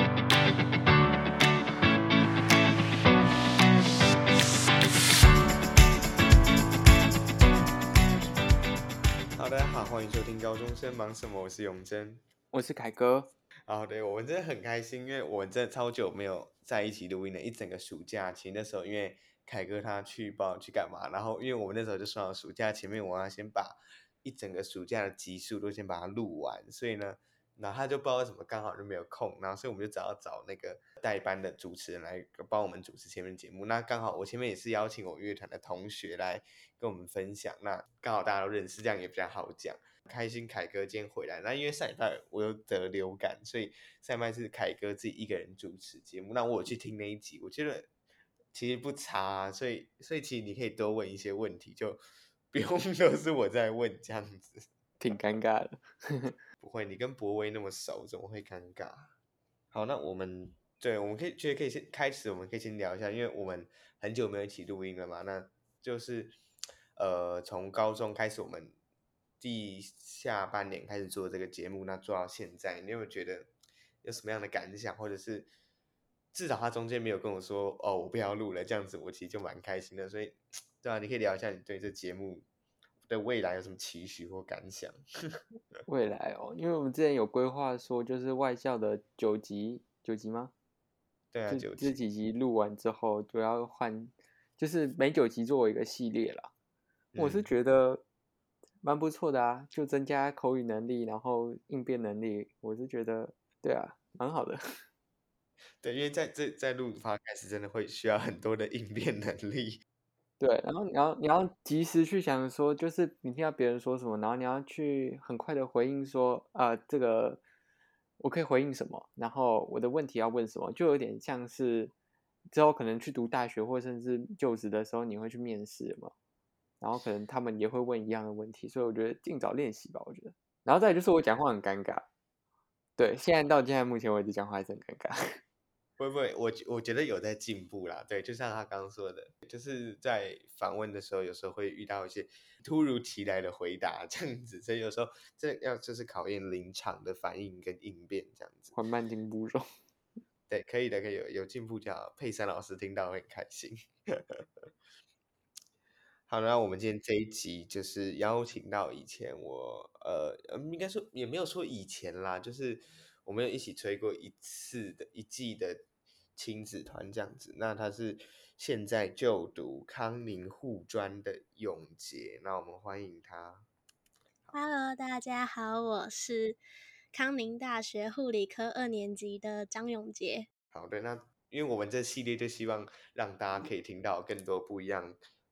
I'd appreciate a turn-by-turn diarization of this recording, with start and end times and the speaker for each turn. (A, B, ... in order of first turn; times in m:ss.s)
0:09.4-0:12.2 A
0:12.5-0:13.3 B
0:13.7-0:47.9 A
0:48.5-0:52.0 A
0:52.5-0:54.7 A
0:55.0-0:56.4 B
0:56.6-0:59.1 A
0:59.7-1:06.4 A
1:07.0-1:08.8 A
1:09.4-1:13.5 A
1:14.0-1:15.5 A
1:16.3-1:22.5 A
1:23.1-1:25.4 A
1:25.9-1:30.5 B
1:31.3-1:32.0 A
1:31.5-1:36.5 B
1:37.1-1:37.5 A
1:37.2-1:38.0 B
1:38.8-1:44.6 B
1:45.8-1:49.8 A
1:50.4-1:57.4 B
1:58.2-2:01.9 B
2:02.5-2:06.1 B
2:06.8-2:12.1 B
2:13.0-2:15.4 B
2:16.0-2:28.8 A
2:28.8-2:29.7 B
2:30.5-2:34.7 A
2:36.3-2:45.8 A
2:46.4-2:53.7 A
2:54.5-2:56.6 C
2:57.1-3:00.5 C
3:00.7-3:05.2 A